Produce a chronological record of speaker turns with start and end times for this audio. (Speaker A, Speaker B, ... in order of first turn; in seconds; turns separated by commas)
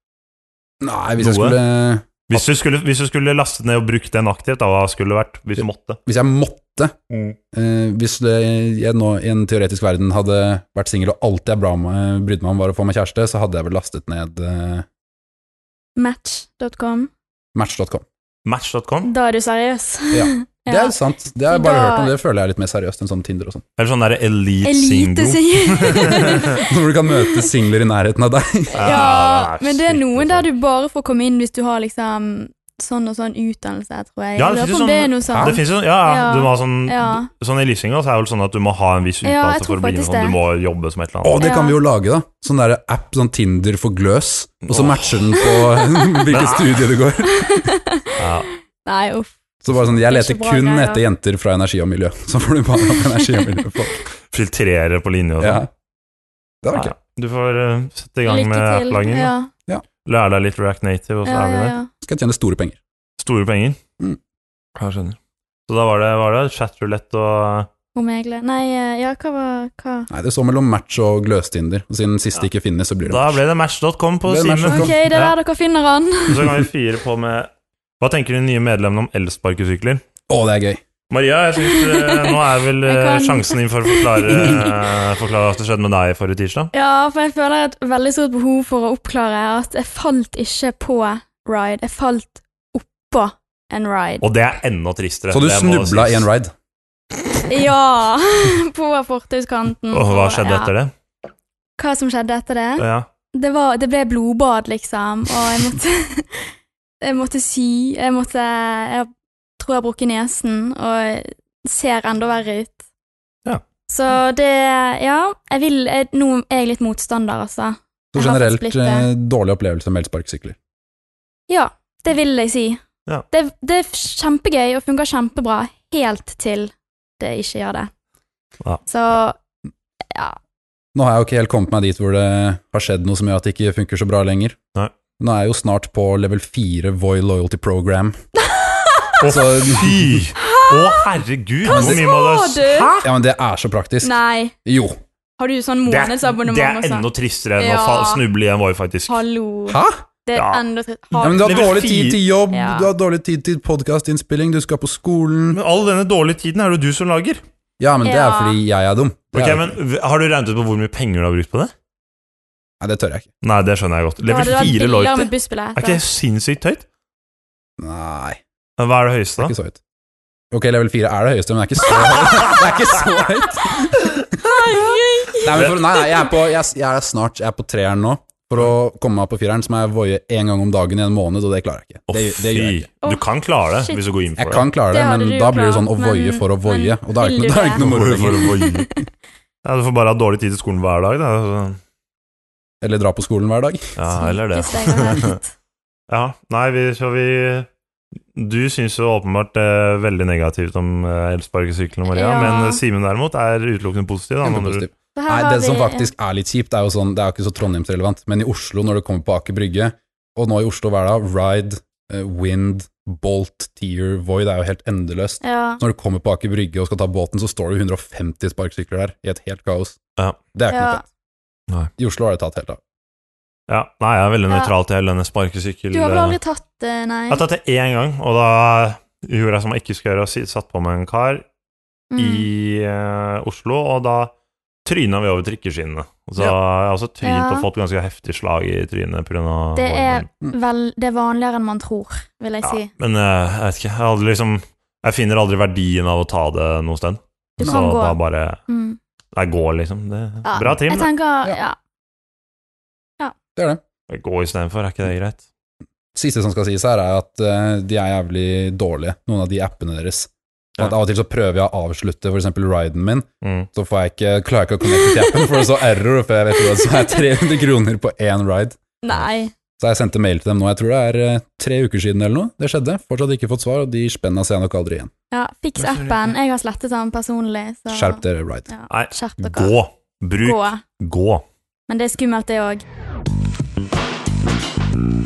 Speaker A: 0.8-2.5, Speaker B: 1.2-1.6, Speaker B: 2.3-6.0, Speaker A: 5.6-6.9, Speaker B: 7.1-7.4, Speaker A: 7.5-14.8, Speaker C: 16.0-17.1, Speaker A: 17.5-18.0, Speaker B: 18.4-19.1, Speaker C: 19.0-20.9, Speaker A: 20.1-23.6, Speaker C: 21.5-22.1, Speaker B: 23.8-26.5, Speaker C: 24.6-26.7, Speaker A: 26.6-29.1, Speaker B: 28.7-30.5, Speaker C: 28.8-37.3, Speaker B: 34.4-41.4, Speaker C: 39.2-40.4, Speaker A: 41.2-47.7, Speaker C: 41.4-41.8, Speaker B: 44.7-45.3, Speaker B: 46.3-46.9, Speaker C: 47.2-51.0, Speaker B: 48.2-48.5, Speaker A: 49.6-54.0, Speaker C: 52.9-53.7, Speaker B: 54.3-55.6, Speaker A: 55.4-55.7, Speaker A: 56.6-56.9, Speaker B: 56.7-59.3, Speaker C: 58.3-59.5, Speaker B: 60.0-61.8, Speaker C: 61.2-61.9, Speaker A: 62.0-62.8, Speaker B: 63.2-63.8, Speaker B: 64.8-67.7, Speaker C: 67.9-70.1, Speaker A: 70.1-73.4, Speaker B: 73.0-75.3, Speaker A: 74.3-75.0, Speaker C: 74.7-76.5, Speaker B: 76.3-80.0, Speaker A: 80.3-80.8, Speaker B: 81.1-86.7, Speaker C: 81.6-84.7, Speaker C: 86.7-94.2, Speaker B: 94.2-96.2, Speaker A: 95.3-96.5, Speaker C: 97.5-100.7, Speaker B: 99.9-100.9, Speaker C: 101.8-112.8, Speaker B: 102.8-103.1, Speaker C: 113.9-119.1, Speaker A: 118.1-120.6, Speaker C: 121.5-127.9, Speaker C: 128.9-129.4, Speaker C: 130.1-130.4, Speaker A: 130.9-134.6, Speaker A: 135.2-138.2, Speaker C: 138.4-139.2, Speaker B: 139.2-143.1, Speaker A: 139.2-140.2, Speaker C: 140.4-141.0, Speaker C: 141.6-142.9, Speaker A: 141.8-142.0, Speaker A: 143.0-145.0, Speaker C: 144.0-144.5, Speaker C: 145.4-148.2, Speaker B: 145.8-149.2, Speaker C: 149.1-151.8, Speaker A: 149.7-150.0, Speaker B: 150.3-152.2, Speaker A: 151.2-155.6, Speaker C: 152.5-152.9, Speaker B: 155.5-157.4, Speaker A: 157.8-159.7, Speaker C: 158.0-158.6, Speaker B: 159.3-161.7, Speaker A: 162.8-163.3, Speaker B: 163.4-166.8, Speaker C: 164.3-166.0, Speaker A: 167.8-168.4, Speaker B: 168.8-169.5, Speaker A: 169.4-169.8, Speaker A: 170.5-174.7, Speaker C: 174.4-176.2, Speaker A: 175.4-182.9, Speaker B: 182.1-184.7, Speaker C: 183.0-184.0, Speaker A: 184.4-188.6, Speaker C: 184.9-187.8, Speaker B: 187.8-188.9, Speaker C: 188.5-189.0, Speaker B: 189.6-191.8, Speaker A: 192.8-194.0, Speaker B: 194.0-195.4, Speaker C: 194.2-195.5, Speaker B: 196.1-197.7, Speaker B: 198.3-204.8, Speaker C: 202.1-202.8, Speaker A: 204.4-220.0, Speaker C: 205.1-206.1, Speaker C: 215.4-215.8, Speaker A: 220.5-221.0, Speaker C: 220.7-221.0, Speaker A: 222.0-222.8, Speaker B: 223.7-226.4, Speaker C: 225.9-227.4, Speaker B: 227.3-231.4, Speaker C: 232.1-232.4, Speaker B: 232.2-234.3, Speaker B: 234.8-240.3, Speaker C: 237.2-237.7, Speaker C: 239.8-242.9, Speaker B: 242.6-248.6, Speaker C: 247.6-249.0, Speaker B: 249.3-251.1, Speaker C: 250.4-251.8, Speaker A: 253.6-253.8, Speaker B: 254.1-255.4, Speaker A: 256.1-268.8, Speaker B: 263.4-263.7, Speaker C: 265.0-265.7, Speaker C: 266.6-267.4, Speaker C: 269.0-269.5, Speaker A: 269.8-275.1, Speaker C: 275.3-279.8, Speaker B: 275.8-276.3, Speaker A: 277.9-278.7, Speaker B: 278.9-281.4, Speaker C: 280.4-280.8, Speaker C: 281.9-282.8